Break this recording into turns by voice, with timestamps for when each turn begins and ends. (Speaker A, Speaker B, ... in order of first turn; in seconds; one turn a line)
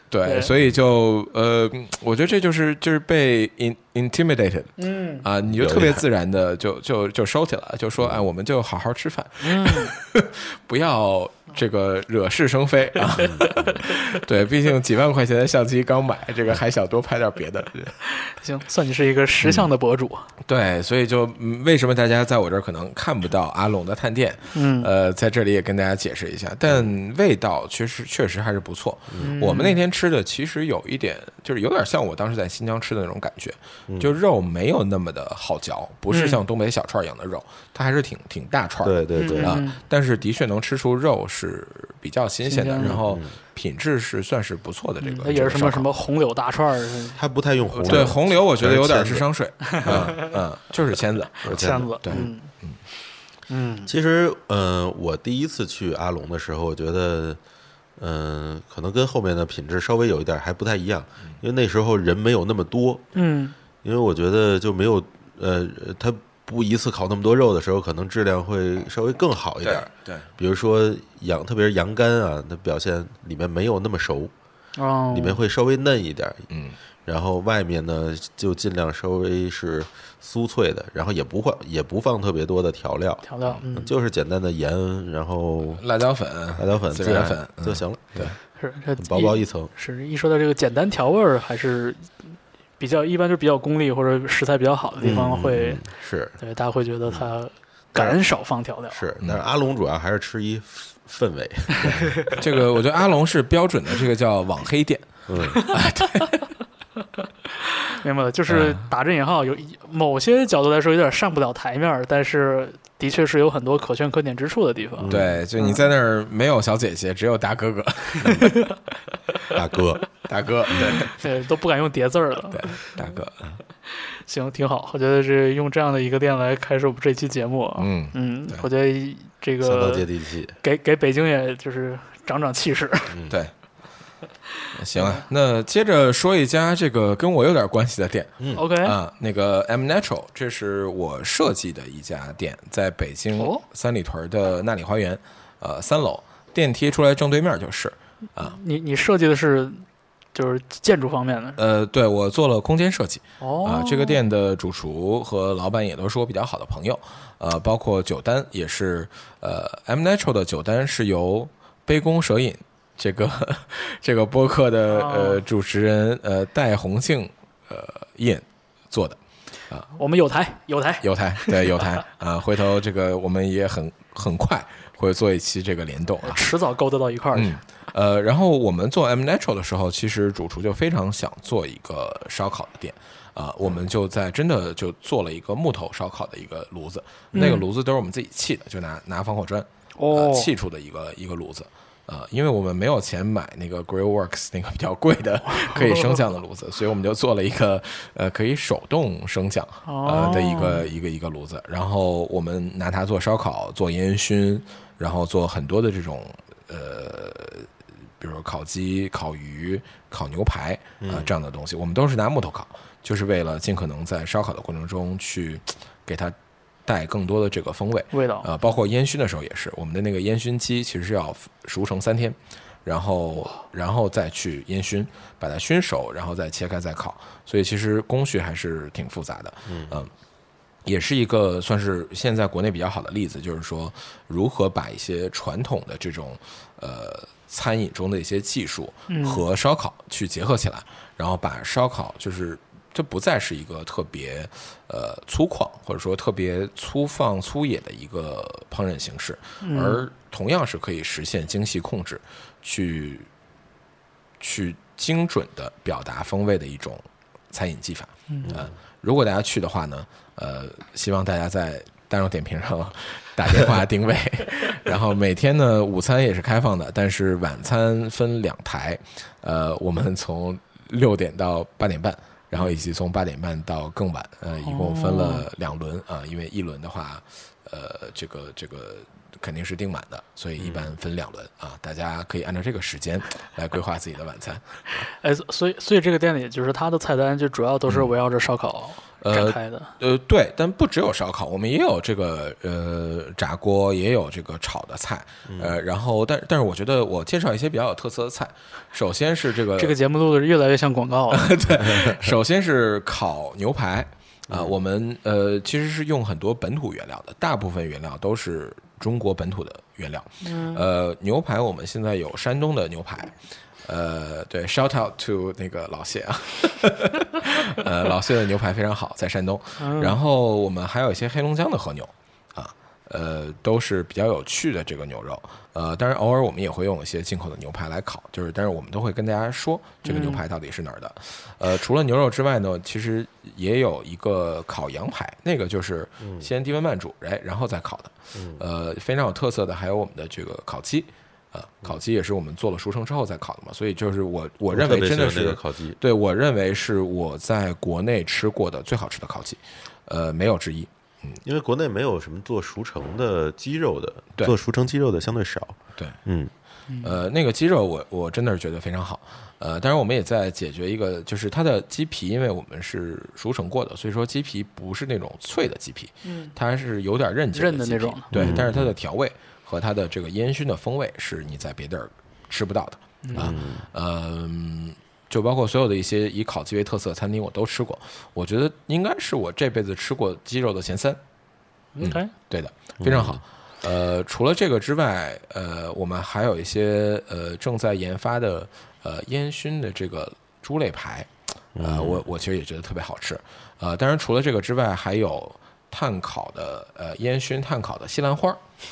Speaker A: 0.1-18.0
Speaker B: 4.8-5.2
Speaker C: 5.5-6.0
Speaker B: 9.4-9.9
Speaker C: 13.2-13.7
Speaker B: 18.1-20.3
Speaker A: 19.4-19.7
Speaker A: 20.4-45.9
Speaker B: 24.6-24.9
Speaker B: 29.2-29.8
Speaker B: 36.1-36.4
Speaker C: 38.8-39.6
Speaker B: 39.1-39.8
Speaker B: 42.5-43.0
Speaker C: 42.8-43.4
Speaker B: 45.0-47.2
Speaker C: 47.1-49.3
Speaker A: 47.7-52.8
Speaker C: 49.8-50.3
Speaker B: 49.9-50.3
Speaker B: 51.4-52.5
Speaker C: 51.5-52.3
Speaker B: 53.5-53.9
Speaker C: 53.9-57.4
Speaker C: 58.0-63.0
Speaker B: 63.1-63.6
Speaker C: 63.8-74.3
Speaker A: 69.6-70.3
Speaker B: 74.8-75.4
Speaker C: 75.1-76.5
Speaker A: 76.5-76.8
Speaker C: 77.1-85.8
Speaker B: 83.3-83.9
Speaker A: 85.8-88.4
Speaker C: 86.6-88.3
Speaker B: 88.6-92.1
Speaker C: 89.0-89.7
Speaker B: 92.8-95.9
Speaker C: 95.0-96.4
Speaker B: 96.4-99.0
Speaker C: 98.0-98.2
Speaker C: 98.9-102.4
Speaker B: 101.8-102.3
Speaker A: 102.2-106.5
Speaker C: 105.3-105.6
Speaker B: 107.8-115.8
Speaker A: 108.5-108.9
Speaker C: 115.0-115.4
Speaker A: 115.0-118.7
Speaker B: 118.2-118.6
Speaker C: 119.5-120.0
Speaker A: 120.2-121.2
Speaker B: 120.8-122.8
Speaker A: 122.5-123.5
Speaker B: 123.9-130.1
Speaker A: 127.8-128.7
Speaker C: 129.6-130.6
Speaker B: 130.6-133.2
Speaker C: 133.1-133.4
Speaker A: 134.8-148.6
Speaker B: 134.9-135.2
Speaker C: 138.4-138.7
Speaker B: 138.5-139.0
Speaker B: 143.4-143.6
Speaker B: 148.4-151.6
Speaker A: 151.6-169.9
Speaker B: 153.4-154.2
Speaker B: 164.9-165.4
Speaker B: 169.9-171.8
Speaker A: 171.0-176.4
Speaker B: 176.2-177.6
Speaker A: 177.3-207.7
Speaker C: 187.3-187.6
Speaker B: 187.3-187.7
Speaker B: 190.0-190.5
Speaker B: 195.5-196.3
Speaker B: 199.9-200.9
Speaker A: 208.2-216.3
Speaker C: 211.0-211.3
Speaker A: 216.9-230.1
Speaker B: 218.1-218.5
Speaker C: 229.7-230.0
Speaker A: 230.8-253.3
Speaker B: 239.1-239.4
Speaker B: 249.6-250.1
Speaker A: 254.4-284.9
Speaker C: 258.4-258.7
Speaker B: 274.7-275.5
Speaker C: 280.6-280.9
Speaker B: 285.1-289.9
Speaker A: 287.9-288.1
Speaker A: 289.2-299.9
Speaker C: 295.5-295.8
Speaker B: 299.8-301.6
Speaker A: 301.3-313.3
Speaker B: 310.4-310.8
Speaker A: 313.8-351.4
Speaker B: 319.8-320.2
Speaker B: 330.1-330.4
Speaker C: 336.2-336.5
Speaker C: 338.3-338.6
Speaker C: 344.7-346.0
Speaker C: 351.4-356.5
Speaker B: 356.9-357.2
Speaker A: 357.0-381.2
Speaker B: 366.2-366.5
Speaker B: 367.5-368.3
Speaker C: 368.3-368.9
Speaker B: 373.2-373.5
Speaker C: 373.4-373.9
Speaker B: 381.9-382.3
Speaker A: 382.0-391.3
Speaker C: 383.0-383.4
Speaker C: 391.8-392.2
Speaker A: 391.8-398.6